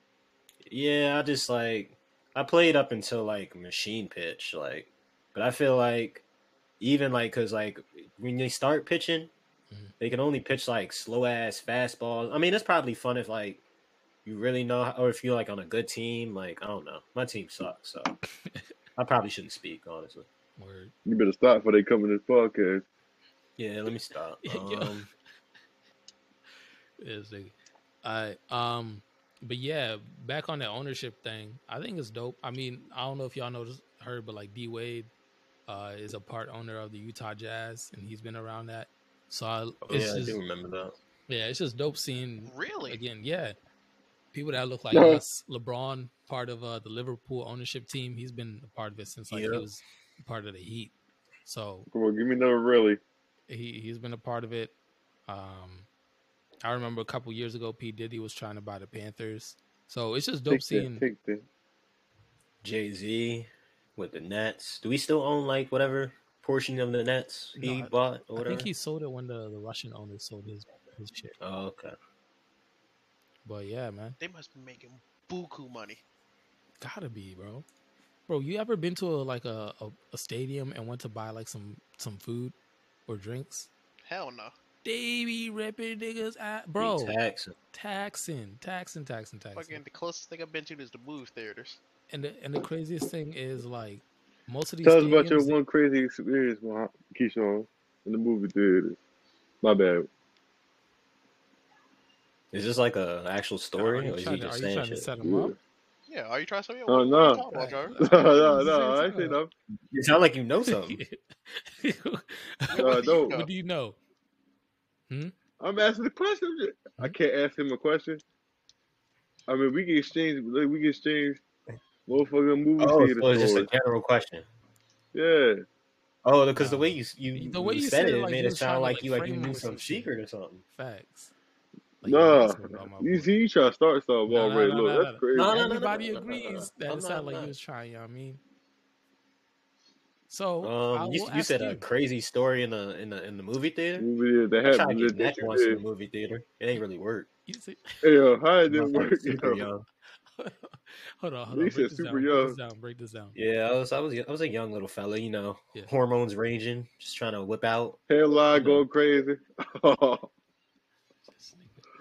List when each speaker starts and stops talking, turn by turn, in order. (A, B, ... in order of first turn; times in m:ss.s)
0:00.7-0:06.2 A
0:06.8-0:09.3 A
0:10.0-0:13.6 A
0:14.2-0:18.1 A
0:19.0-0:20.3 A
0:20.6-0:20.9 B
0:21.1-0:22.8 C
0:23.6-0:25.1 A
0:24.4-0:25.1 B
0:27.0-0:35.1 B
0:35.7-0:40.4 B
0:39.8-0:41.0 A
0:41.3-0:43.6 B
0:42.5-0:43.0 D
0:44.3-0:50.9 B
0:44.9-0:45.2 C
0:49.3-0:49.7 A
0:51.4-0:51.9 B
0:51.9-0:53.0 C
0:53.5-0:54.7 B
0:55.3-0:55.9 B
0:56.6-1:01.0 B
1:00.5-1:01.4 C
1:02.6-1:08.7 A
1:07.6-1:11.4 B
1:11.4-1:11.9 A
1:13.4-1:14.2 B
1:14.2-1:16.0 D
1:16.8-1:17.6 B
1:18.3-1:22.6 B
1:23.1-1:23.7 B
1:24.0-1:24.5 D
1:24.8-1:27.2 B
1:26.8-1:27.6 A
1:27.7-1:29.8 B
1:29.6-1:31.8 D
1:32.1-1:35.6 B
1:34.8-1:39.0 C
1:39.6-1:40.1 C
1:42.5-1:45.1 A
1:43.8-1:45.6 B
1:45.2-1:45.6 C
1:46.1-1:48.0 D
1:46.9-1:49.5 C
1:47.5-1:49.4 B
1:49.9-1:51.0 A
1:50.6-1:54.0 B
1:52.7-1:53.5 D
1:52.8-1:53.4 C
1:55.6-1:58.2 C
1:59.5-2:01.4 C
2:02.1-2:03.7 C
2:02.8-2:04.5 A
2:05.1-2:05.6 C
2:06.2-2:10.6 A
2:06.6-2:10.1 B
2:10.7-2:11.3 B
2:12.0-2:13.3 B
2:12.1-2:15.6 C
2:14.3-2:18.4 B
2:15.3-2:17.6 A
2:20.3-2:21.8 B
2:20.6-2:24.1 A
2:24.0-2:25.8 C
2:24.6-2:27.3 A
2:27.5-2:28.0 B
2:28.0-2:29.7 C
2:28.7-2:29.8 A
2:30.4-2:33.4 B
2:31.5-2:32.6 C
2:33.4-2:38.0 A
2:38.1-2:40.3 C
2:38.5-2:38.8 B
2:41.3-2:41.8 B